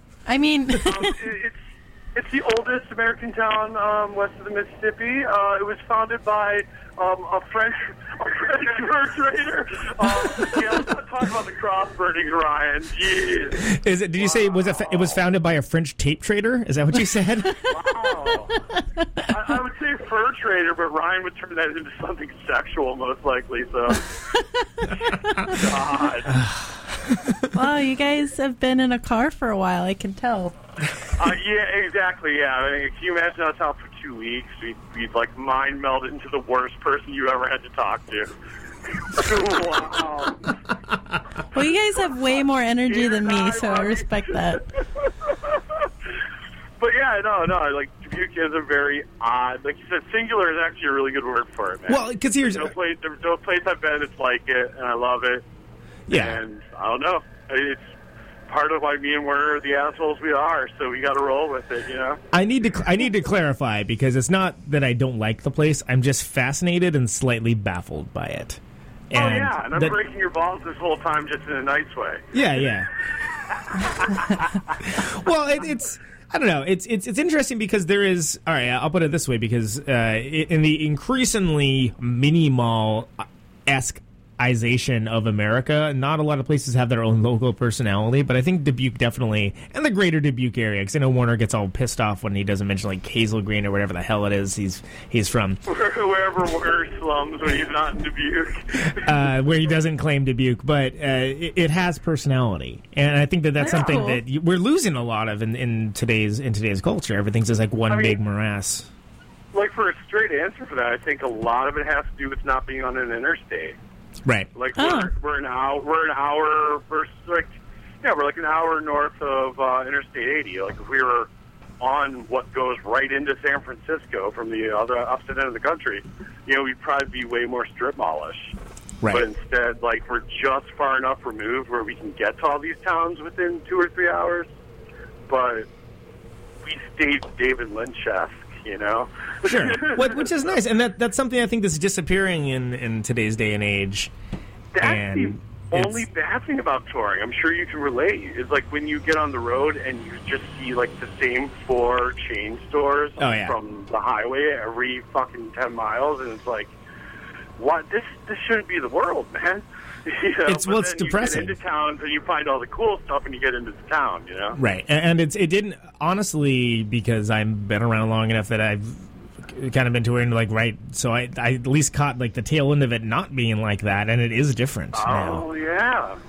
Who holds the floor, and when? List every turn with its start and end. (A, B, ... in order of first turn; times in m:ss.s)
0:00.3-0:01.2 A
0:00.8-0:01.6 B
0:02.1-0:15.2 B
0:13.6-0:17.7 C
0:17.7-0:18.6 B
0:18.7-0:19.2 A
0:19.3-0:24.1 B
0:24.3-0:25.5 A
0:25.5-0:26.4 B
0:26.3-0:27.4 C
0:27.5-0:30.5 A
0:31.2-0:38.3 B
0:39.1-0:40.6 B
0:41.5-0:44.6 A
0:42.9-0:45.9 B
0:46.8-0:55.4 B
0:51.9-0:52.7 C
0:56.1-0:56.4 C
0:56.1-0:57.9 B
0:58.5-1:02.2 B
1:02.3-1:10.0 C
1:09.1-1:12.2 B
1:12.3-1:12.9 C
1:13.8-1:14.7 B
1:14.8-1:35.6 C
1:35.7-1:38.9 B
1:38.8-1:48.9 C
1:43.6-1:44.2 A
1:43.6-1:44.0 B
1:47.9-1:48.2 B
1:49.5-1:53.8 B
1:54.2-1:54.5 C
1:54.5-2:08.5 B
1:54.8-1:55.1 A
2:09.0-2:09.3 C
2:09.1-2:14.5 B
2:15.3-2:15.7 B
2:16.6-2:20.6 B
2:19.4-2:24.1 C
2:24.7-2:36.7 B
2:24.8-2:26.1 C
2:33.2-2:33.6 C
2:37.6-2:44.6 B
2:40.4-2:41.6 C
2:44.6-2:55.4 C
2:54.9-2:56.2 B